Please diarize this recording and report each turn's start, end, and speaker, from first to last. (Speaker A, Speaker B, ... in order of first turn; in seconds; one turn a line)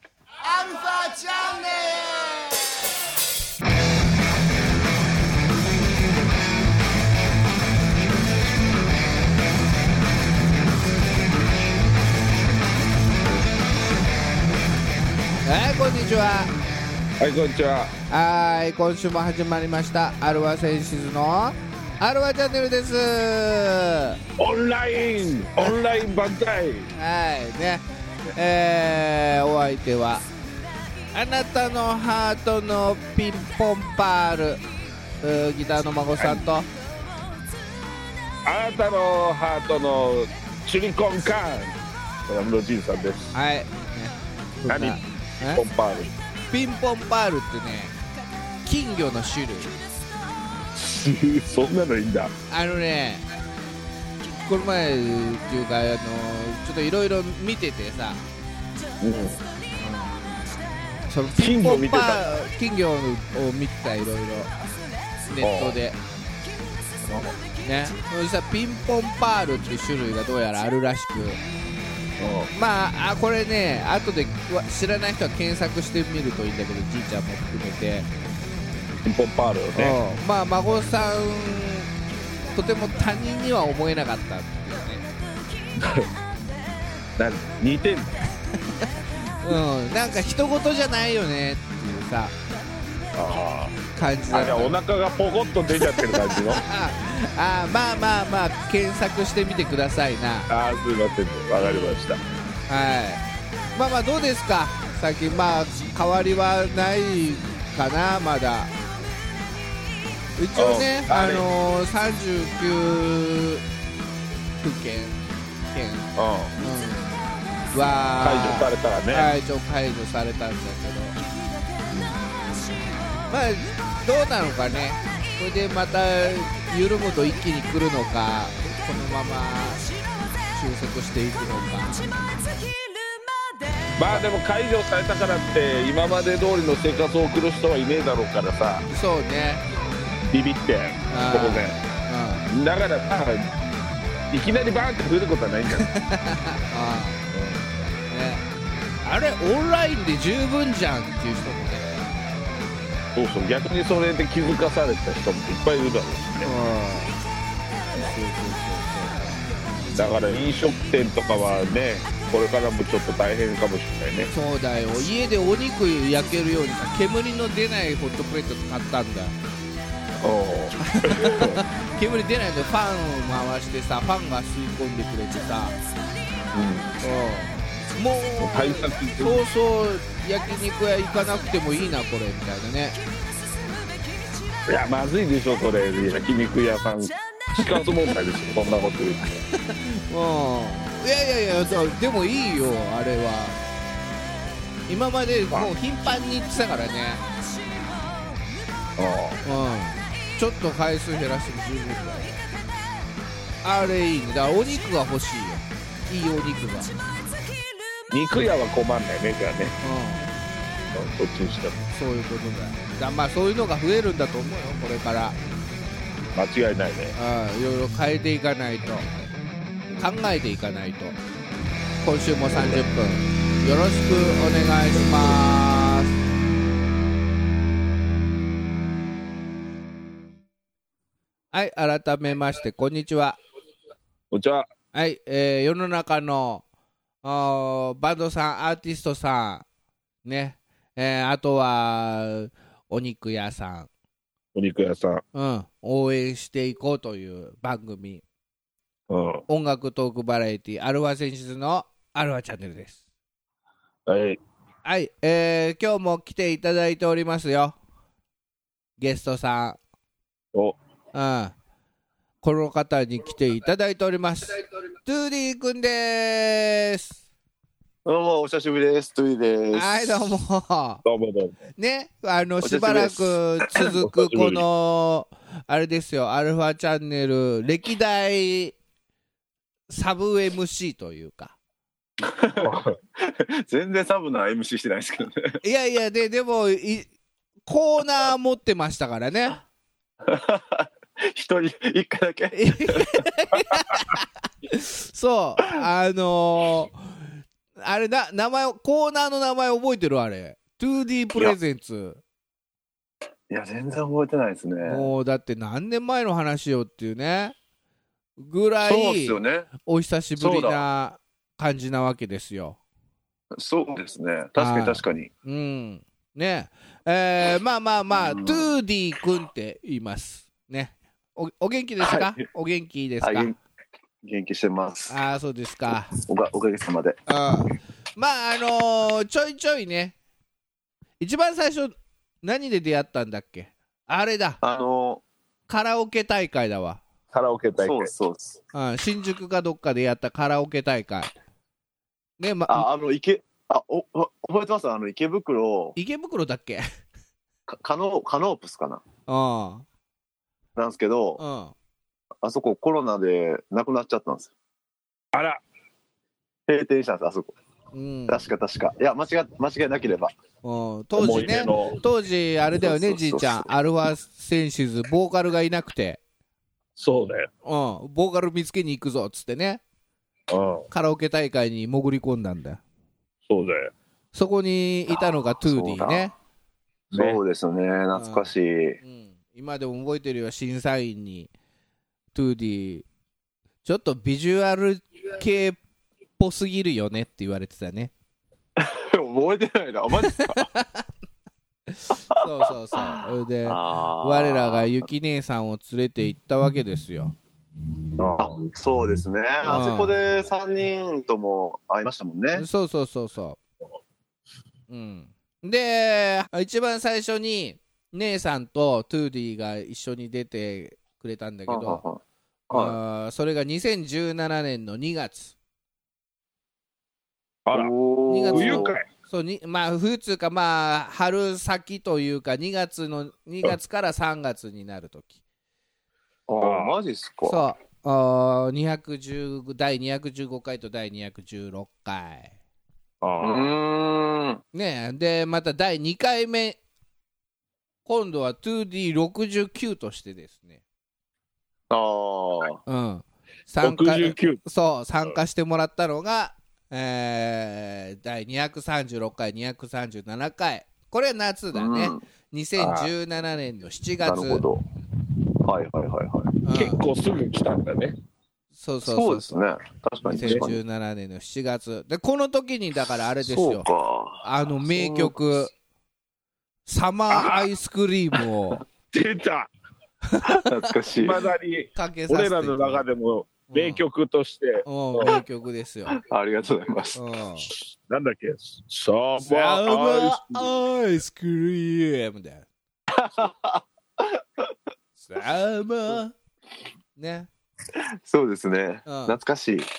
Speaker A: 0.4-2.5
Speaker A: 15.4-16.5
Speaker B: 17.2-17.9
Speaker A: 18.1-24.2
Speaker B: 24.4-26.9
Speaker A: 26.9-30.3
Speaker A: 31.1-34.6
Speaker A: 35.2-36.7
Speaker B: 36.2-36.5
Speaker B: 38.5-43.3
Speaker A: 43.3-45.6
Speaker B: 44.7-46.1
Speaker A: 46.5-48.0
Speaker A: 48.6-49.7
Speaker B: 50.7-52.3
Speaker A: 52.5-53.2
Speaker A: 54.4-58.2
Speaker B: 59.0-59.4
Speaker A: 59.8-60.2
Speaker A: 61.0-64.5
Speaker B: 61.4-62.3
Speaker A: 65.3-66.0
Speaker B: 65.4-65.8
Speaker B: 67.0-67.3
Speaker A: 67.6-71.4
Speaker B: 72.2-72.5
Speaker A: 72.5-78.1
Speaker B: 79.0-80.0
Speaker A: 79.8-81.9
Speaker A: 82.5-85.1
Speaker B: 85.8-86.1
Speaker B: 87.2-88.2
Speaker A: 88.6-92.3
Speaker B: 93.1-96.6
Speaker A: 93.9-94.8
Speaker A: 95.8-100.5
Speaker B: 100.5-102.2
Speaker A: 101.6-102.0
Speaker A: 102.7-103.2
Speaker A: 103.8-108.7
Speaker A: 110.4-113.6
Speaker B: 110.6-111.5
Speaker A: 114.6-115.2
Speaker A: 115.7-116.1
Speaker B: 116.2-116.6
Speaker A: 116.6-121.2
Speaker B: 118.2-119.3
Speaker B: 121.9-122.2
Speaker A: 123.3-132.3
Speaker B: 134.0-138.8
Speaker A: 138.9-139.6
Speaker B: 140.3-141.8
Speaker A: 141.1-142.4
Speaker B: 142.5-143.5
Speaker B: 144.3-145.9
Speaker A: 145.8-147.3
Speaker B: 147.3-147.7
Speaker A: 148.1-148.4
Speaker A: 149.0-152.2
Speaker B: 153.2-156.5
Speaker A: 156.4-157.2
Speaker A: 158.0-160.4
Speaker B: 160.0-164.3
Speaker A: 164.3-169.3
Speaker B: 170.2-171.6
Speaker A: 170.8-175.8
Speaker B: 176.5-177.0
Speaker A: 177.0-183.0
Speaker B: 178.4-179.4
Speaker B: 184.7-189.3
Speaker A: 189.5-193.6
Speaker A: 194.9-197.2
Speaker B: 199.0-199.4
Speaker A: 199.4-202.5
Speaker A: 203.6-206.9
Speaker B: 208.1-209.8
Speaker A: 209.8-210.3
Speaker B: 210.9-211.8
Speaker A: 211.9-215.4
Speaker B: 216.3-217.2
Speaker A: 217.2-219.1
Speaker A: 220.0-221.2
Speaker A: 222.0-226.2
Speaker B: 222.5-222.8
Speaker B: 224.9-225.4
Speaker A: 231.5-233.4
Speaker B: 234.3-234.7
Speaker A: 234.9-236.6
Speaker A: 237.2-239.7
Speaker A: 240.2-243.9
Speaker B: 244.5-245.2
Speaker A: 245.3-248.2
Speaker B: 249.1-249.4
Speaker A: 249.5-253.0
Speaker B: 254.1-254.4
Speaker A: 254.8-257.8
Speaker A: 259.0-259.8
Speaker A: 261.1-261.5
Speaker A: 262.4-267.2
Speaker C: 268.0-270.3
Speaker A: 269.7-271.0
Speaker B: 271.0-271.6
Speaker A: 271.8-278.8
Speaker C: 272.6-273.4
Speaker B: 273.8-274.6
Speaker A: 279.9-281.5
Speaker C: 282.2-285.6
Speaker B: 282.6-282.9
Speaker A: 285.6-287.1
Speaker A: 287.6-289.6
Speaker C: 290.2-293.2
Speaker A: 292.5-302.2
Speaker C: 303.5-305.1
Speaker A: 304.8-307.6
Speaker A: 308.4-312.8
Speaker C: 308.8-309.7
Speaker C: 310.4-310.8
Speaker C: 313.5-315.3
Speaker A: 314.6-323.5
Speaker C: 318.1-318.7
Speaker C: 322.0-322.4
Speaker C: 323.2-323.6
Speaker C: 324.2-325.1
Speaker A: 325.1-326.1
Speaker C: 326.2-327.2
Speaker A: 327.3-330.1
Speaker A: 331.2-334.6
Speaker C: 334.6-335.2
Speaker A: 335.7-337.0
Speaker B: 337.3-338.1
Speaker C: 337.8-338.6
Speaker A: 338.7-341.3
Speaker A: 342.4-342.9
Speaker C: 342.7-345.9
Speaker A: 345.9-346.8
Speaker C: 347.7-349.0
Speaker A: 349.3-349.8
Speaker C: 350.8-351.4
Speaker A: 351.4-351.7
Speaker C: 352.4-354.5
Speaker B: 355.3-355.6
Speaker C: 356.7-357.5
Speaker A: 357.9-358.4
Speaker C: 358.3-360.3
Speaker A: 360.6-366.2
Speaker B: 361.2-362.0
Speaker C: 362.8-363.7
Speaker B: 367.0-367.5
Speaker A: 367.6-369.8
Speaker B: 370.5-370.9
Speaker A: 370.9-372.8
Speaker B: 373.5-373.9
Speaker A: 374.3-376.3
Speaker C: 375.1-376.3
Speaker C: 377.1-379.0
Speaker B: 377.1-377.4
Speaker A: 378.1-378.5
Speaker A: 379.0-381.5
Speaker A: 382.3-383.1
Speaker A: 383.8-385.8
Speaker A: 386.4-388.1
Speaker C: 388.8-390.7
Speaker A: 390.2-391.0
Speaker A: 391.9-397.3
Speaker C: 392.9-395.1
Speaker B: 398.2-398.6
Speaker C: 398.4-402.6
Speaker A: 399.6-400.1
Speaker A: 402.5-403.6
Speaker A: 404.9-412.0
Speaker C: 411.7-413.0
Speaker A: 412.7-415.5
Speaker B: 417.7-417.9
Speaker C: 417.7-419.0
Speaker A: 418.3-425.4
Speaker B: 418.5-419.0
Speaker C: 426.5-427.6
Speaker B: 426.6-426.9
Speaker A: 427.4-432.5
Speaker B: 433.2-433.7
Speaker C: 433.4-434.6
Speaker A: 434.7-436.8
Speaker A: 438.1-440.8
Speaker C: 441.9-442.8
Speaker A: 442.9-454.6
Speaker B: 443.8-444.6
Speaker C: 451.7-452.2
Speaker B: 452.8-453.1
Speaker C: 454.2-454.8
Speaker C: 455.6-456.5
Speaker A: 456.6-457.0
Speaker B: 456.7-458.1
Speaker A: 458.7-459.6
Speaker C: 459.0-460.8
Speaker B: 460.2-460.6
Speaker A: 460.3-463.9
Speaker C: 463.4-465.6
Speaker A: 464.4-465.7
Speaker A: 466.9-468.8
Speaker B: 467.3-467.6
Speaker B: 469.1-469.7
Speaker A: 470.2-470.7
Speaker C: 470.4-471.4
Speaker B: 471.2-475.4
Speaker A: 471.9-473.0
Speaker A: 473.7-474.0
Speaker A: 474.8-476.2
Speaker C: 476.1-477.2
Speaker A: 477.1-477.7
Speaker B: 478.0-480.6
Speaker A: 479.4-482.6
Speaker C: 483.1-484.7
Speaker A: 485.2-486.4
Speaker A: 487.2-487.5
Speaker C: 487.9-489.9
Speaker A: 489.1-489.4